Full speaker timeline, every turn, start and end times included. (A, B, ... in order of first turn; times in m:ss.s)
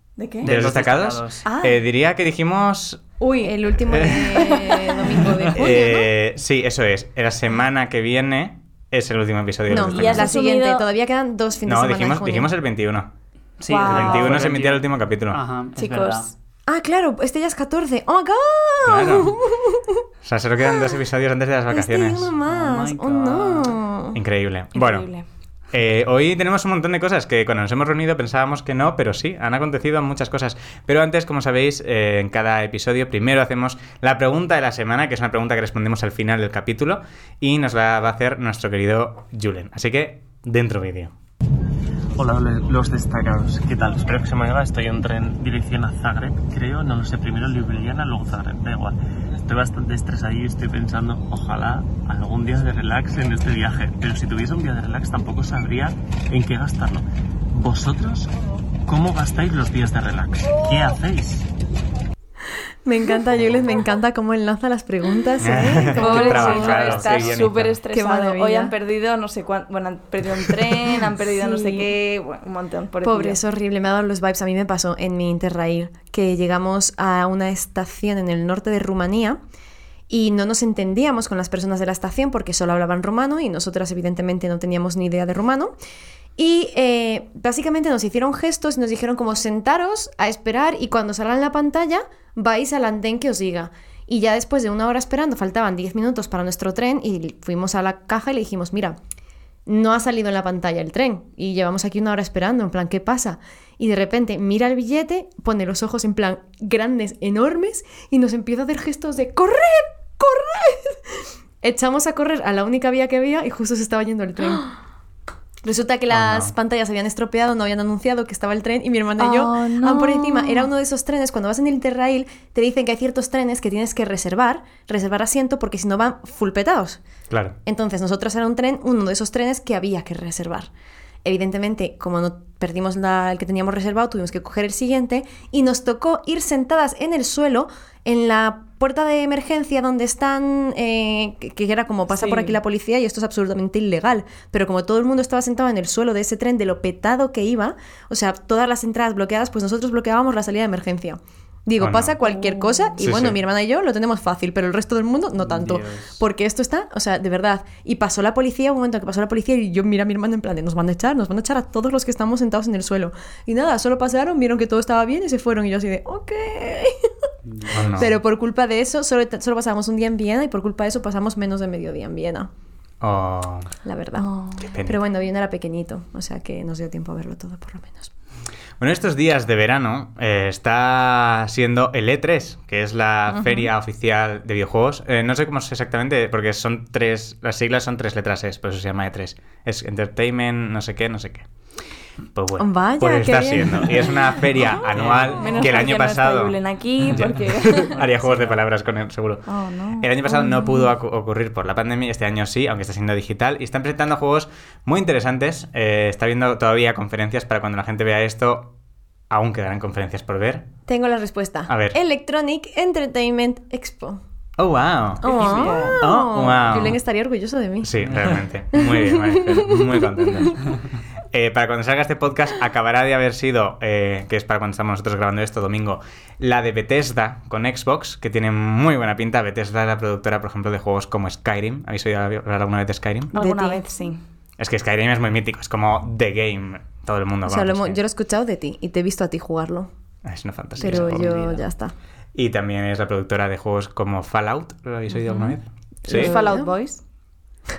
0:00.2-0:00.5 A
0:00.4-0:01.4 B
0:00.4-0:03.0 C
0:01.4-0:01.8 A
0:03.2-0:05.2 A
0:03.4-0:06.1 D
0:03.8-0:04.4 C
0:05.5-0:10.3 C
0:09.7-0:12.5 D
0:09.8-0:10.9 A
0:11.6-0:13.1 C
0:13.6-0:16.3 B
0:13.7-0:14.4 A
0:13.8-0:15.4 C
0:15.8-0:16.3 A
0:16.7-0:20.0 D
0:18.8-0:19.4 C
0:20.2-0:22.3 C
0:21.7-0:24.2 D
0:22.4-0:23.8 B
0:24.1-0:25.1 C
0:24.7-0:25.3 A
0:25.7-0:41.1 C
0:42.2-0:58.3 E
0:58.9-1:01.5 E
1:02.8-1:06.9 D
1:05.4-1:07.8 C
1:05.9-1:13.4 A
1:06.3-1:07.4 B
1:07.9-1:08.7 D
1:11.4-1:11.9 D
1:13.0-1:19.4 D
1:20.1-1:25.7 D
1:26.4-1:39.0 D
1:39.7-1:51.0 D
1:51.6-1:54.8 D
1:55.6-2:07.0 D
1:56.1-1:56.5 C
1:59.2-2:00.7 A
2:07.3-2:07.6 C
2:07.6-2:10.7 D
2:11.2-2:47.1 D
2:22.1-2:22.6 A
2:31.8-2:32.2 C
2:32.2-2:33.0 A
2:33.0-2:33.4 C
2:35.4-2:36.2 B
2:47.5-2:48.0 B
2:47.7-2:52.5 D
2:47.7-2:48.1 C
2:53.0-2:53.7 C
2:53.8-2:54.3 D
2:54.2-2:54.7 A
2:54.6-2:55.0 C
2:54.8-2:58.1 D
2:58.8-3:11.5 C
3:03.3-3:03.7 D
3:12.4-3:16.6 C
3:12.6-3:14.2 D
3:14.9-3:15.6 B
3:15.1-3:18.0 A
3:17.1-3:18.6 B
3:17.2-3:19.5 C
3:19.5-3:20.1 A
3:20.0-3:28.7 C
3:29.3-3:30.7 C
3:30.9-3:34.2 D
3:31.7-3:32.0 C
3:34.6-3:37.0 C
3:35.2-3:36.0 A
3:35.2-3:38.0 D
3:37.8-3:40.7 C
3:38.8-3:40.5 D
3:41.3-3:53.3 C
3:53.3-3:54.2 A
3:53.3-3:53.8 D
3:54.6-3:58.0 C
3:57.5-3:59.9 D
4:00.2-4:01.3 C
4:00.8-4:01.6 B
4:00.8-4:01.9 D
4:02.4-4:06.4 C
4:05.1-4:05.6 A
4:06.1-4:06.7 D
4:06.1-4:07.0 A